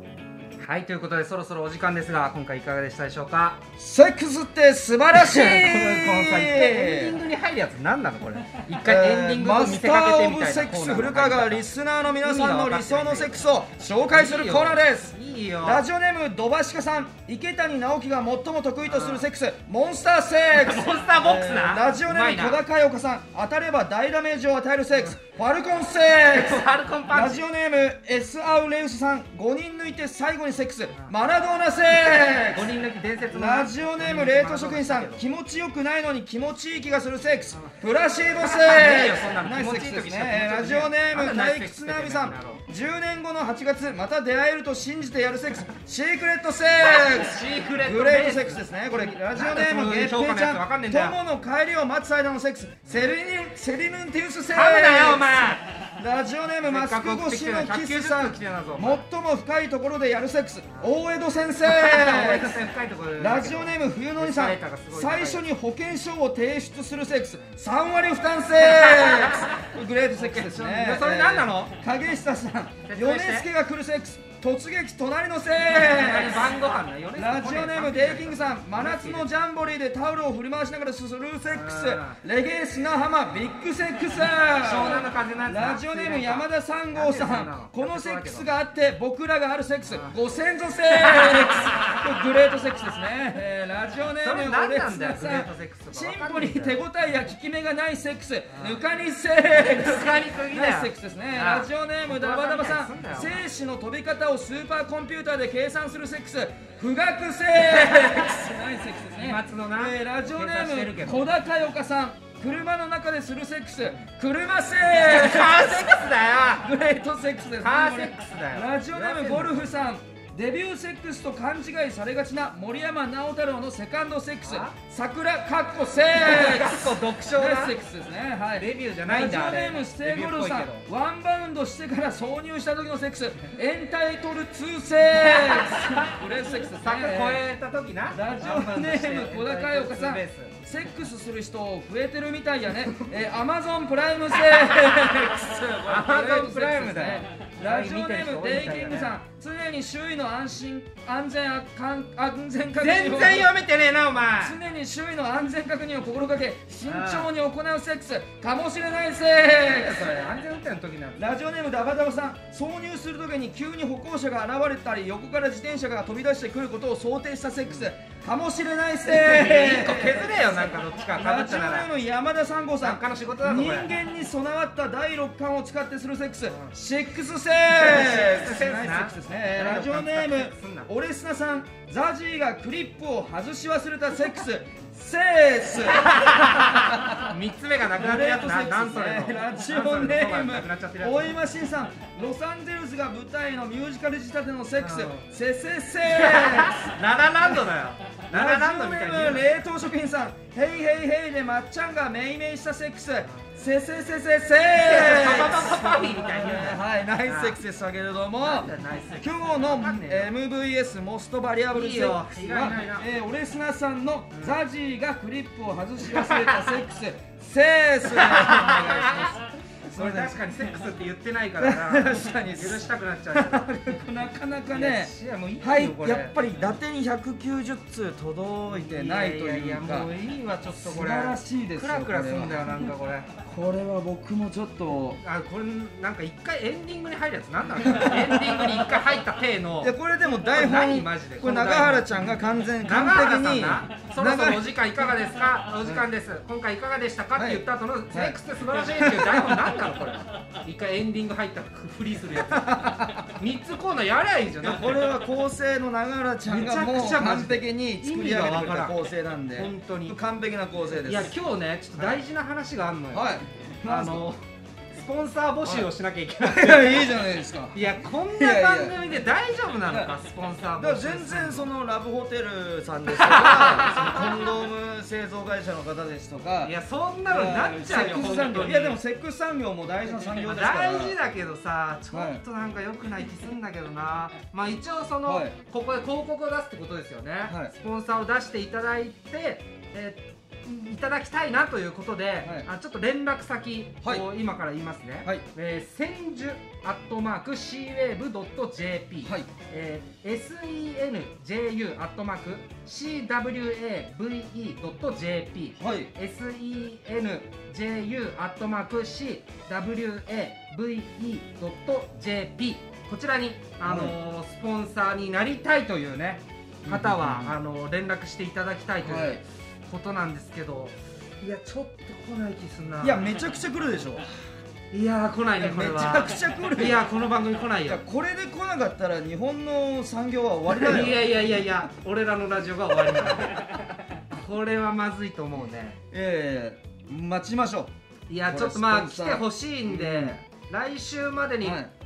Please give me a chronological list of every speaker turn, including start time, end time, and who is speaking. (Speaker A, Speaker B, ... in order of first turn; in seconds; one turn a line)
Speaker A: 0.6-3.6
Speaker B: 3.8-7.2
Speaker A: 5.1-11.6
Speaker B: 8.7-32.7
Speaker A: 12.2-13.4
Speaker A: 14.1-15.8
Speaker A: 18.9-19.2
Speaker A: 20.5-22.6
Speaker A: 26.3-27.4
Speaker A: 32.3-35.2
Speaker B: 33.3-76.6
Speaker A: 38.3-42.6
Speaker A: 46.8-51.2
Speaker A: 54.5-55.7
Speaker A: 56.6-59.0
Speaker A: 61.6-65.4
Speaker A: 68.6-69.6
Speaker A: 70.2-71.7
Speaker A: 72.8-73.5
Speaker A: 75.7-79.3
Speaker B: 77.2-137.4
Speaker A: 81.5-82.2
Speaker A: 84.6-88.5
Speaker A: 89.9-90.2
Speaker A: 90.9-92.1
Speaker A: 94.2-96.8
Speaker A: 98.5-98.8
Speaker A: 99.5-103.4
Speaker A: 107.6-108.4
Speaker A: 109.2-111.2
Speaker A: 114.9-116.7
Speaker A: 117.6-119.7
Speaker A: 124.4-124.7
Speaker A: 126.1-127.8
Speaker A: 128.6-130.8
Speaker A: 135.2-140.5
Speaker B: 138.1-153.5
Speaker A: 144.4-145.3
Speaker A: 145.8-149.1
Speaker A: 152.8-154.6
Speaker B: 154.4-160.3
Speaker A: 156.8-157.3
Speaker A: 159.6-161.3
Speaker B: 161.2-187.3
Speaker A: 169.1-171.9
Speaker A: 172.8-173.9
Speaker A: 176.5-176.7
Speaker A: 177.7-180.9
Speaker A: 185.9-191.4
Speaker B: 187.9-197.6
Speaker A: 194.8-195.2
Speaker A: 196.0-199.5
Speaker B: 198.3-220.5
Speaker A: 204.8-207.6
Speaker A: 208.4-210.3
Speaker A: 211.7-213.0
Speaker A: 214.3-214.6
Speaker A: 216.1-216.7
Speaker A: 218.1-219.3
Speaker A: 219.9-224.0
Speaker B: 221.6-230.1
Speaker A: 224.7-226.7
Speaker A: 228.7-233.3
Speaker B: 230.7-235.2
Speaker A: 235.2-239.9
Speaker B: 237.8-239.0
Speaker B: 239.8-244.7
Speaker A: 240.5-255.1
Speaker B: 247.3-249.7
Speaker B: 252.3-253.3
Speaker B: 254.6-261.3
Speaker A: 256.5-259.0
Speaker A: 259.5-260.1
Speaker A: 261.0-263.3
Speaker B: 263.1-264.3
Speaker A: 263.9-267.2
Speaker B: 266.4-269.0
Speaker A: 267.7-271.7
Speaker B: 269.9-270.1
Speaker B: 270.8-276.7
Speaker A: 273.1-274.5
Speaker A: 276.6-279.0
Speaker B: 277.3-281.2
Speaker A: 280.2-323.3
Speaker B: 282.1-282.4
Speaker B: 285.2-285.6
Speaker B: 287.5-287.7
Speaker B: 292.4-292.7
Speaker B: 299.2-299.5
Speaker B: 305.8-306.1
Speaker B: 313.8-314.1
Speaker B: 316.8-317.6
Speaker B: 319.0-319.4
Speaker B: 323.0-324.3
Speaker A: 324.9-328.0
Speaker B: 325.6-327.1
Speaker B: 327.9-331.2
Speaker A: 330.7-336.0
Speaker B: 336.1-337.9
Speaker A: 338.3-341.8
Speaker B: 338.4-340.3
Speaker B: 341.6-341.9